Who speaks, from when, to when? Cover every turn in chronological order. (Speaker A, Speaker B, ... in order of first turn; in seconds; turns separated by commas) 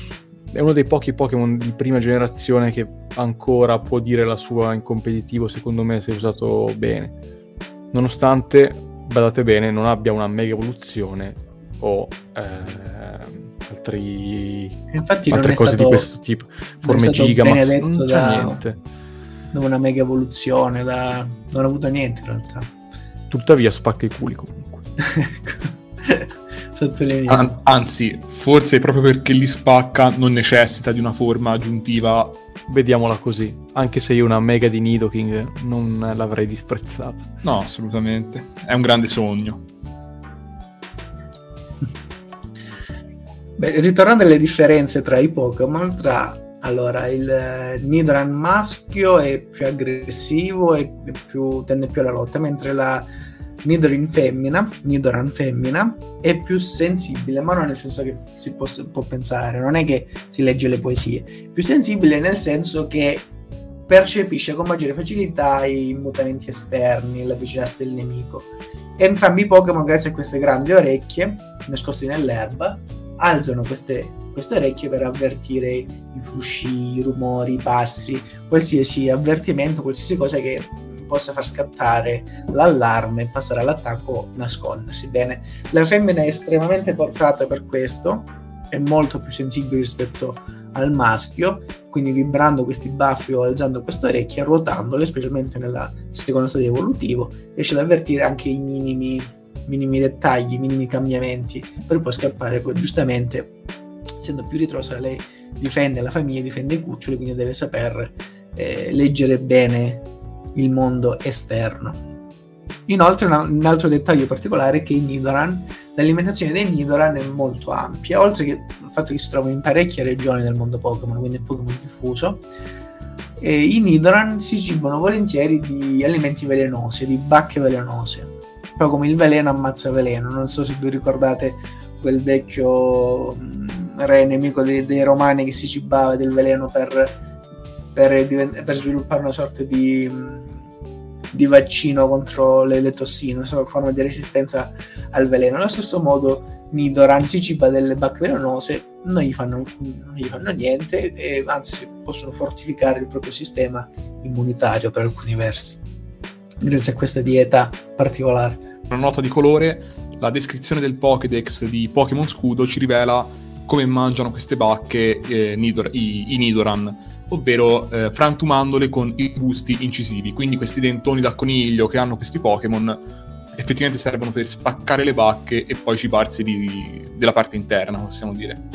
Speaker A: 0.5-7.1, Speaker A: 7.9-18.8, Speaker B: 14.9-16.1, Speaker B: 16.8-18.6, Speaker B: 19.5-22.7, Speaker A: 23.3-24.9, Speaker B: 25.0-27.6, Speaker C: 27.3-32.4, Speaker A: 32.7-37.3, Speaker C: 37.4-39.6, Speaker B: 43.6-53.1, Speaker B: 53.6-63.3, Speaker B: 63.9-103.5, Speaker B: 104.2-112.0, Speaker B: 112.9-122.5, Speaker B: 123.4-137.2, Speaker B: 137.9-140.6, Speaker B: 141.3-155.8, Speaker B: 156.6-158.6, Speaker C: 158.9-173.0, Speaker C: 173.5-178.6